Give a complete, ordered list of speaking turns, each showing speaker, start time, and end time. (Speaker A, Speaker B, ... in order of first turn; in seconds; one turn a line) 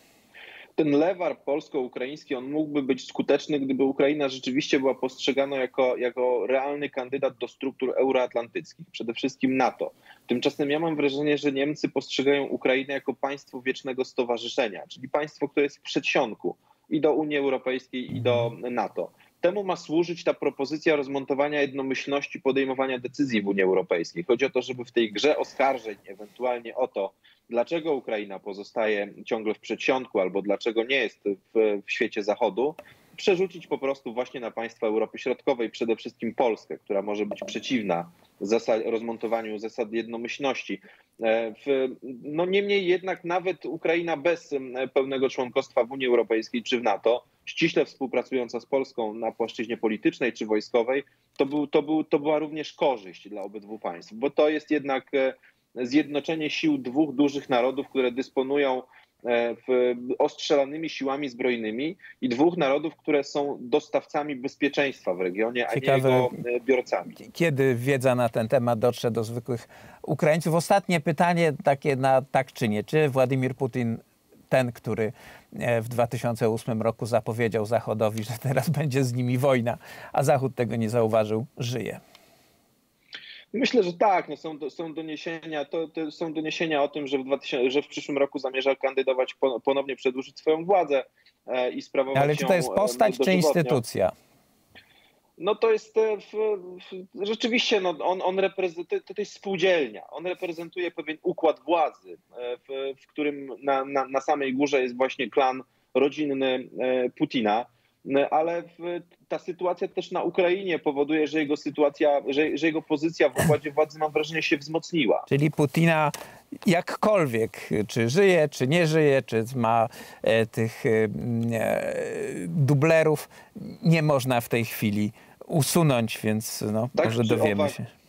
Speaker A: 0.8-67.2
Speaker B: 65.7-66.4
Speaker B: 67.2-82.0
Speaker A: 83.5-93.8
Speaker B: 92.1-94.1
Speaker A: 95.4-115.3
Speaker B: 115.3-116.1
Speaker B: 116.6-127.8
Speaker A: 127.0-127.8